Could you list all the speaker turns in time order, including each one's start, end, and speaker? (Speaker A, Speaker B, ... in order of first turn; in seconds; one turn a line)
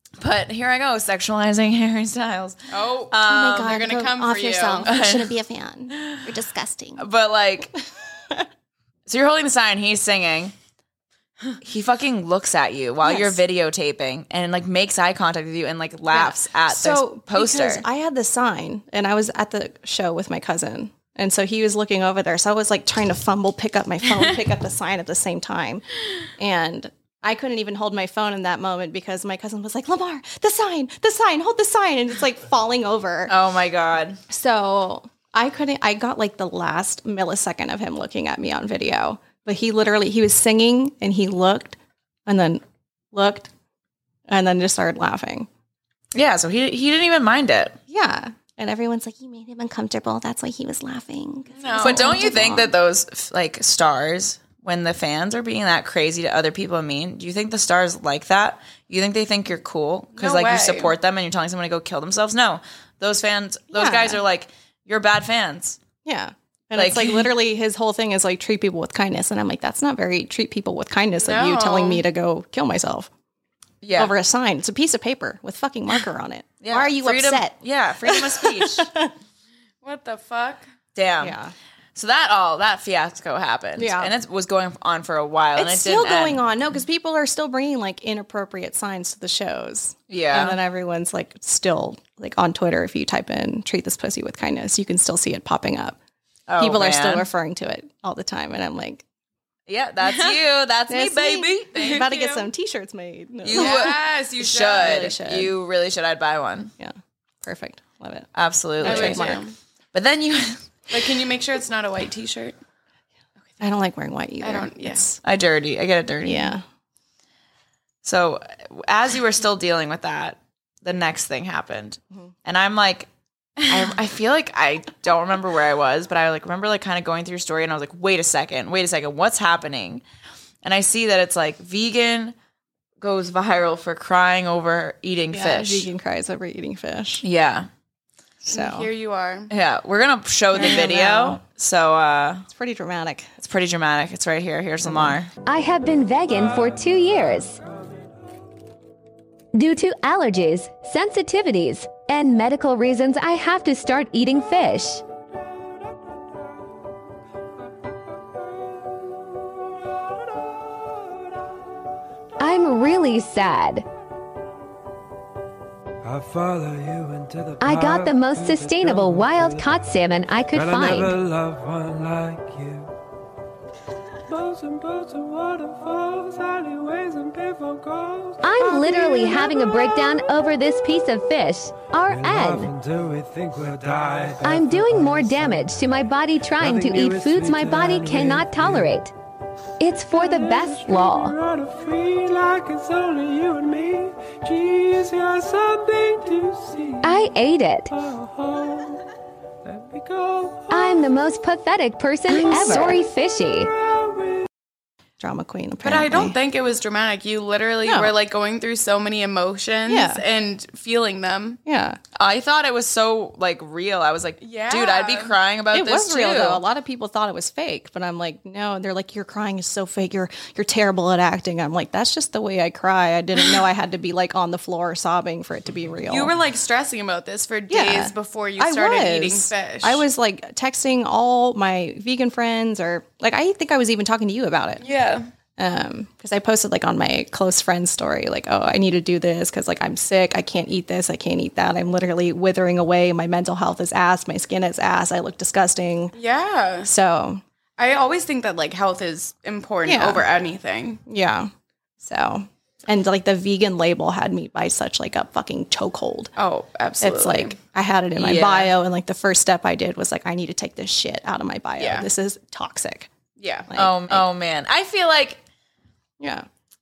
Speaker A: 0.2-2.5
Speaker B: 2.7-4.9
Speaker A: 3.1-3.9
Speaker C: 3.2-7.0
Speaker A: 4.8-5.3
Speaker A: 5.9-6.2
Speaker A: 7.0-7.7
Speaker A: 9.1-10.5
Speaker A: 11.6-17.8
Speaker C: 13.0-13.4
Speaker C: 16.1-25.8
Speaker C: 26.4-33.3
Speaker A: 33.3-34.2
Speaker C: 34.3-43.5
Speaker C: 44.3-45.5
Speaker A: 46.1-47.8
Speaker C: 47.9-52.7
Speaker B: 51.5-52.2
Speaker A: 51.8-65.8
Speaker B: 60.1-60.9
Speaker C: 63.7-64.2
Speaker C: 66.0-73.1
Speaker A: 66.7-67.3
Speaker B: 71.2-72.0
Speaker A: 73.8-74.1
Speaker C: 73.9-79.1
Speaker A: 76.6-78.9
Speaker B: 79.8-80.7
Speaker A: 80.9-81.4
Speaker C: 81.2-81.5
Speaker A: 81.9-86.4
Speaker C: 83.8-84.1
Speaker C: 85.5-96.0
Speaker A: 90.1-90.6
Speaker A: 96.5-97.3
Speaker C: 96.6-99.0
Speaker A: 99.7-102.1
Speaker C: 100.9-103.9
Speaker B: 101.7-102.5
Speaker A: 103.4-106.7
Speaker B: 103.5-105.1
Speaker C: 104.7-105.5
Speaker C: 106.8-108.3
Speaker A: 108.3-109.4
Speaker C: 108.8-109.4
Speaker B: 108.8-109.5
Speaker A: 109.9-110.6
Speaker B: 110.9-112.6
Speaker C: 113.6-115.2
Speaker B: 114.4-115.0
Speaker A: 115.2-116.5
Speaker C: 116.2-116.6
Speaker A: 118.0-123.1
Speaker A: 123.6-130.0
Speaker A: 130.6-132.3
Speaker A: 133.0-135.9
Speaker C: 135.3-137.2
Speaker A: 137.2-137.7
Speaker B: 138.5-139.5
Speaker C: 138.5-138.9
Speaker A: 139.5-142.4
Speaker C: 140.5-141.4
Speaker C: 142.5-143.3
Speaker A: 143.4-145.3
Speaker C: 144.8-145.2
Speaker D: 145.4-147.6
Speaker E: 146.3-148.1
Speaker D: 149.5-155.0
Speaker D: 162.4-163.8
Speaker E: 166.0-172.9
Speaker D: 167.6-171.2
Speaker E: 174.3-180.3
Speaker D: 178.4-182.7
Speaker E: 182.1-189.0
Speaker D: 184.4-189.1
Speaker D: 189.8-191.4
Speaker E: 190.1-197.3
Speaker D: 197.0-197.9
Speaker E: 197.9-199.0
Speaker E: 199.6-201.3
Speaker D: 200.7-203.7
Speaker E: 202.3-204.5
Speaker C: 205.2-206.3
Speaker B: 205.8-211.6
Speaker C: 207.8-208.1
Speaker C: 209.9-210.2
Speaker C: 211.7-212.0
Speaker A: 212.2-216.6
Speaker B: 214.4-215.3
Speaker C: 215.7-226.3
Speaker B: 226.1-230.0
Speaker C: 227.7-234.8
Speaker B: 234.8-235.3
Speaker C: 235.6-246.1
Speaker B: 246.1-246.9
Speaker C: 246.8-247.4
Speaker B: 247.8-251.0
Speaker C: 249.9-250.2
Speaker C: 251.1-251.5
Speaker C: 252.0-256.3
Speaker B: 256.4-257.6
Speaker C: 257.0-263.1
Speaker A: 258.1-258.7
Speaker B: 261.8-262.1
Speaker B: 263.4-263.7
Speaker C: 263.7-264.2
Speaker A: 263.7-265.4
Speaker C: 266.2-266.4